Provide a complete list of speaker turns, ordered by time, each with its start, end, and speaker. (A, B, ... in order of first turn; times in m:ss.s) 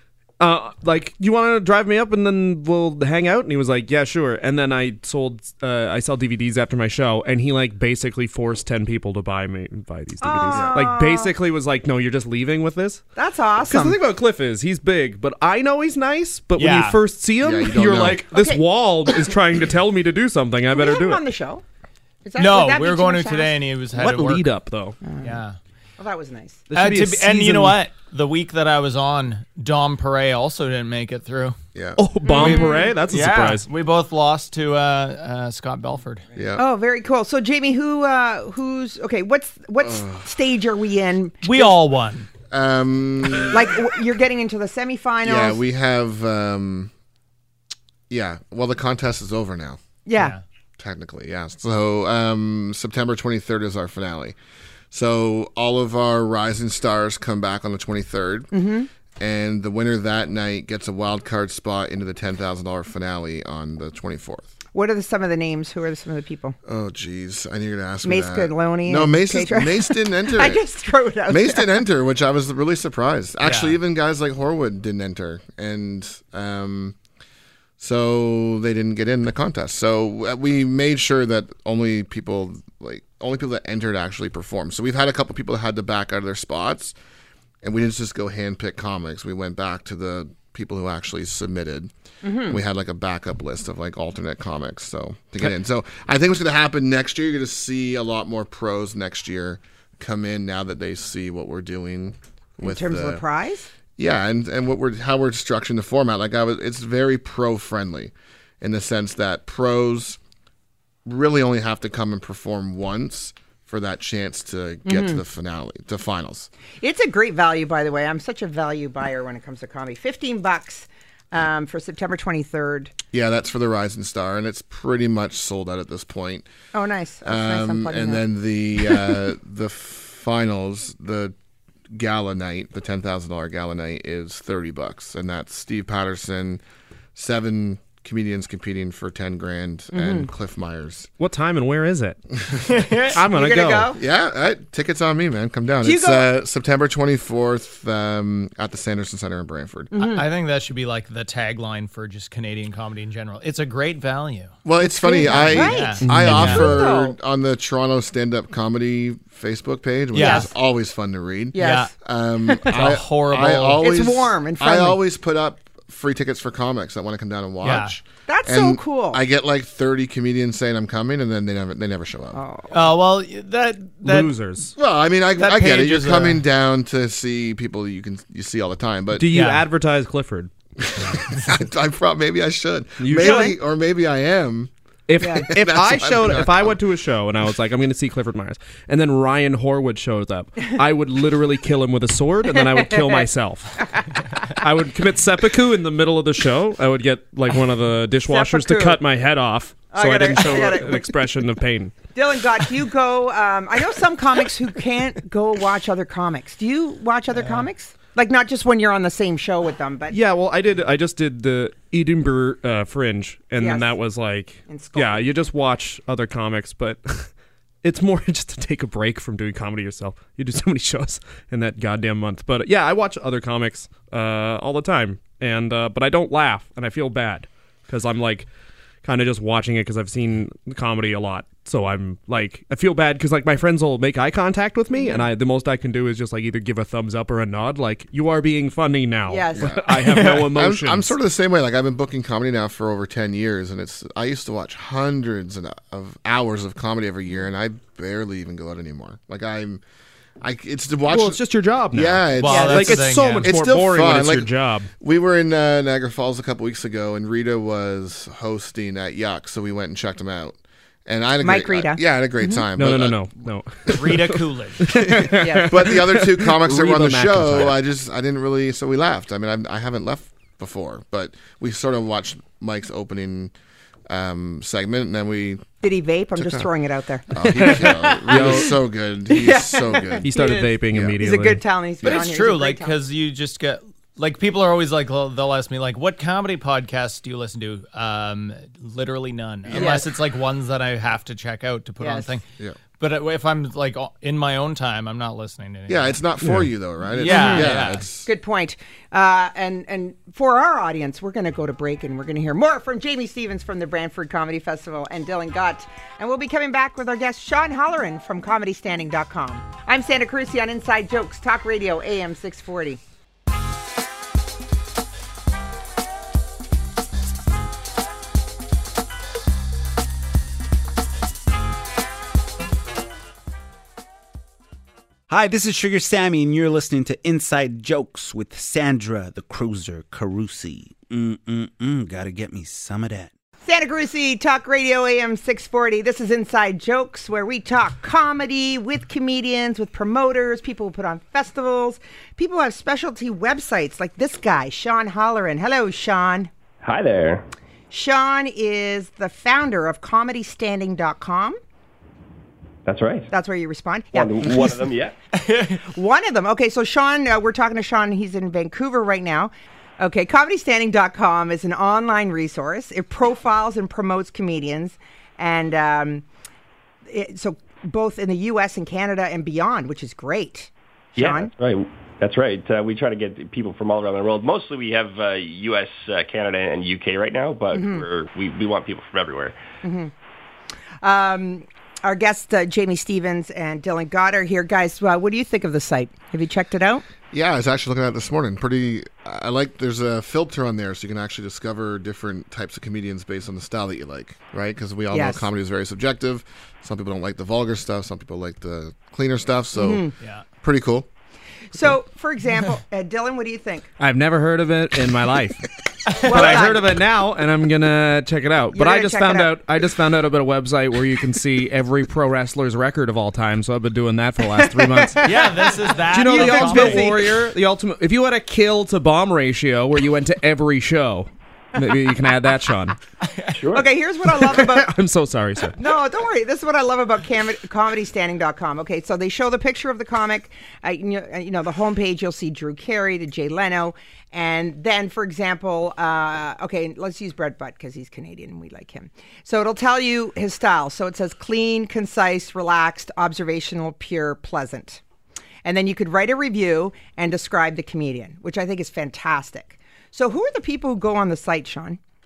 0:00.4-0:13.0 A
0:10.2-0:11.3 B
0:10.5-0:10.8 C
0:13.2-0:14.0 B
0:13.7-0:21.2 A
0:16.6-0:17.0 D
0:17.4-0:18.2 C
0:18.3-0:18.6 B
0:20.7-0:21.6 B
0:22.2-0:23.6 B
0:22.4-0:24.4 D
0:23.9-0:25.0 A
0:25.0-0:25.4 B
0:25.2-0:25.6 D
0:26.0-0:26.6 B
0:26.7-0:27.8 A
0:26.7-0:31.6 D
0:31.7-0:32.0 C
0:32.0-0:33.6 A
0:32.2-0:32.9 B
0:32.3-0:36.2 D
0:36.3-0:36.6 C
0:36.6-0:41.7 B
0:39.8-0:40.3 C
0:41.4-0:42.3 D
0:42.5-0:43.7 C
0:43.5-0:45.6 B
0:45.2-0:46.9 C
0:48.1-0:49.8 C
0:50.0-0:50.3 B
0:50.8-0:54.4 C
0:54.9-0:58.5 C
0:58.5-0:58.9 B
0:59.2-1:04.5 C
1:04.7-1:06.6 B
1:06.6-1:10.6 C
1:08.0-1:11.8 B
1:11.3-1:17.0 C
1:13.4-1:13.8 D
1:17.8-1:26.9 C
1:27.6-1:31.9 C
1:32.2-1:32.6 B
1:32.4-1:43.2 C
1:42.6-1:43.7 B
1:44.0-1:50.2 C
1:51.0-1:56.5 C
1:54.8-1:55.2 B
1:56.8-2:02.9 B
2:03.1-2:06.5 C
2:06.7-2:08.2 B
2:07.2-2:11.3 C
2:08.8-2:09.1 B
2:11.9-2:16.6 C
2:17.1-2:21.1 C
2:19.9-2:20.3 B
2:21.2-2:22.2 A
2:22.7-2:23.2 D
2:23.1-2:23.9 A
2:23.2-2:24.0 B
2:24.0-2:29.9 C
2:25.8-2:26.3 B
2:29.9-2:30.2 B
2:30.0-2:34.5 D
2:34.6-2:52.4 C
2:34.8-2:37.2 B
2:35.3-2:36.7 D
2:36.0-2:36.4 A
2:40.1-2:40.5 D
2:40.2-2:40.5 B
2:41.5-2:41.9 B
2:41.6-2:41.9 D
2:42.6-2:43.8 D
2:43.8-2:45.0 B
2:47.6-2:47.9 D
2:48.3-2:49.2 B
2:52.3-2:52.8 B
2:52.7-2:54.3 D
2:54.0-2:54.7 A
2:54.8-2:59.3 C
2:55.4-2:56.4 D
2:59.2-3:00.5 A
2:59.3-2:59.6 D
3:00.8-3:04.7 C
3:01.1-3:01.4 D
3:03.0-3:03.5 A
3:03.2-3:03.5 B
3:05.1-3:13.9 A
3:05.2-3:05.5 B
3:05.2-3:06.8 C
3:12.8-3:13.2 B
3:14.5-3:21.9 A
3:18.3-3:19.0 B
3:19.9-3:21.2 B
3:22.1-3:30.2 B
3:27.3-3:27.6 D
3:30.1-3:37.3 A
3:33.6-3:33.9 B
3:34.7-3:35.2 B
3:37.8-3:48.5 A
3:49.0-4:01.1 A
3:54.9-3:55.2 B
3:59.3-3:59.7 B
3:59.6-4:09.8 C
4:10.4-4:23.3 C
4:11.1-4:14.9 A
4:12.4-4:13.5 D
4:12.5-4:12.8 B
4:21.4-4:22.6 B
4:22.8-4:27.8 A
4:23.9-4:25.0 D
4:24.9-4:33.5 C
4:25.4-4:25.7 B
4:34.1-4:35.7 C
4:35.8-4:38.7 B
4:36.4-4:36.7 C
4:37.3-4:40.3 C
4:37.6-4:38.7 A
4:39.3-4:43.0 B
4:40.2-4:41.6 A
4:40.9-4:41.2 C
4:42.0-4:52.4 D
4:49.7-4:49.9 C
4:49.7-4:50.1 B
4:52.0-4:52.3 B
4:53.0-4:56.2 D
4:55.9-4:58.3 C
4:56.4-4:56.7 A
4:57.1-4:58.0 D
4:57.2-5:13.0 B
5:25.3-5:33.3 E
5:33.6-5:46.5 B
5:46.8-5:47.4 F
5:47.9-5:51.6 B
5:52.8-5:53.3 F
5:53.3-5:54.7 B
5:54.1-5:55.1 F
5:55.4-5:55.8 D
5:55.9-6:06.2 B
6:07.1-6:11.5 B
6:11.2-6:19.5 F
6:17.7-6:18.0 B
6:19.8-6:20.1 B
6:21.0-6:27.0 B
6:27.3-6:40.1 C
6:35.1-6:35.4 B
6:39.7-6:40.1 B
6:40.6-6:41.1 C
6:41.7-6:43.9 B
6:44.0-7:03.0 A
6:46.1-6:46.7 D
6:46.2-6:46.8 B
6:48.7-6:49.5 B
6:54.8-6:55.4 B
6:55.2-6:57.1 D
6:56.1-6:57.3 B
7:03.3-7:03.6 D
7:03.5-7:03.9 F
7:03.7-7:04.9 B
7:04.4-7:05.8 A
7:05.8-7:25.0 B
7:25.6-7:32.0 B